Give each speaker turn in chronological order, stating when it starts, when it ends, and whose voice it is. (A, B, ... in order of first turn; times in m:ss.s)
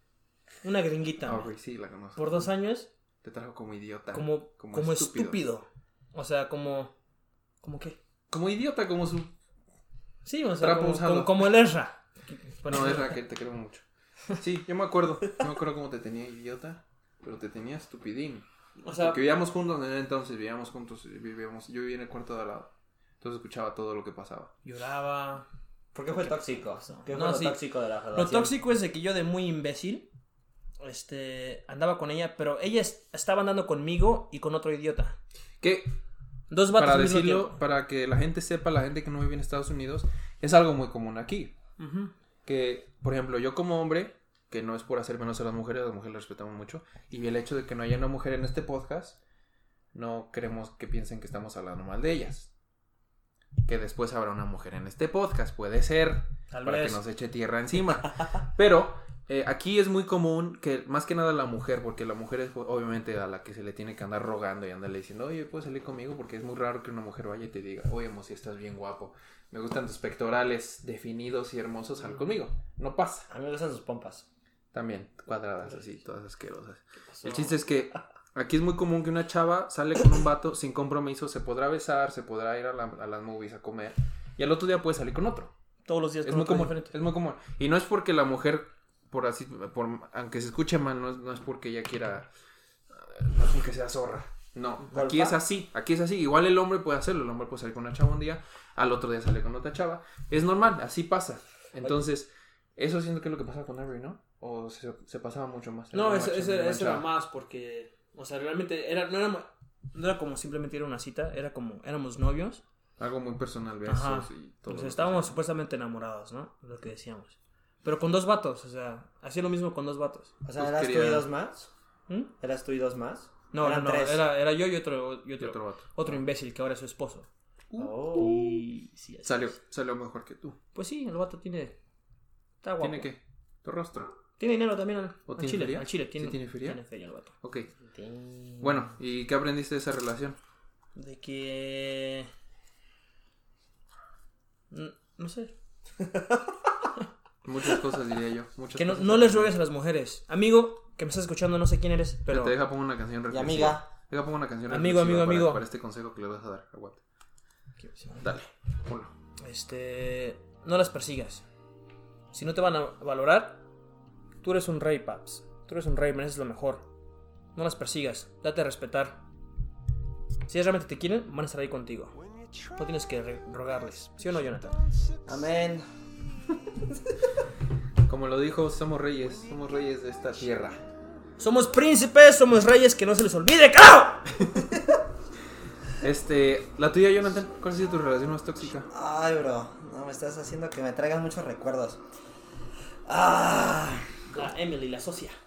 0:00.6-0:01.5 A
0:01.2-0:02.5 B
0:02.2-0:02.9 A
0:03.2-0:05.4 B
0:04.1-0:06.9 A
0:07.6-0:08.0 A
0:08.3-0:09.3 B
0:10.2-0:13.2 A
0:10.6-0:11.5 B
0:12.7-0:18.4 B
0:18.8-0:19.2 A
0:19.0-0:24.5 B
0:24.6-0:25.4 A
0:25.9-0:28.5 C
0:26.9-0:27.6 A
0:28.1-0:30.1 A
0:30.8-0:35.2 A
0:35.6-0:36.0 B
0:36.5-0:37.6 A
0:36.8-0:41.5 B
0:41.8-0:42.1 A
0:42.4-0:49.2 B
0:49.9-0:52.5 B
0:53.6-1:13.3 B
0:56.5-0:57.0 A
1:13.3-1:14.2 C
1:14.7-1:25.5 B
1:17.1-1:17.6 A
1:25.8-1:26.9 A
1:26.2-1:32.3 B
1:32.9-1:47.0 B
1:34.9-1:35.4 C
1:45.9-1:52.6 A
1:53.0-1:55.4 B
1:53.8-2:00.3 A
2:00.4-2:01.7 C
2:00.6-2:01.3 B
2:02.4-2:04.2 C
2:03.5-2:07.3 A
2:05.4-2:06.2 B
2:07.7-2:08.0 B
2:07.8-2:08.6 C
2:08.1-2:09.5 A
2:09.2-2:10.6 B
2:10.7-2:11.8 A
2:12.6-2:13.1 A
2:12.8-2:14.1 B
2:14.4-2:17.3 A
2:15.3-2:16.8 B
2:17.4-2:17.7 B
2:17.9-2:18.9 C
2:18.6-2:20.4 B
2:20.9-2:22.3 A
2:24.7-2:25.5 A
2:26.0-2:26.6 C
2:27.4-2:29.5 B
2:28.7-2:32.5 A
2:32.3-2:37.0 B
2:33.3-2:33.9 C
2:34.7-2:35.6 A
2:37.8-2:38.3 A
2:38.2-2:39.1 B
2:39.4-2:41.4 A
2:42.3-2:43.6 A
2:44.4-2:46.9 A
2:47.5-2:49.2 A
2:50.5-2:52.1 A
2:52.8-2:54.8 A
2:55.2-2:55.8 C
2:58.1-3:00.8 B
3:01.4-3:04.4 A
3:06.0-3:08.9 B
3:08.9-3:12.0 C
3:13.1-3:14.2 C
3:14.3-3:15.4 A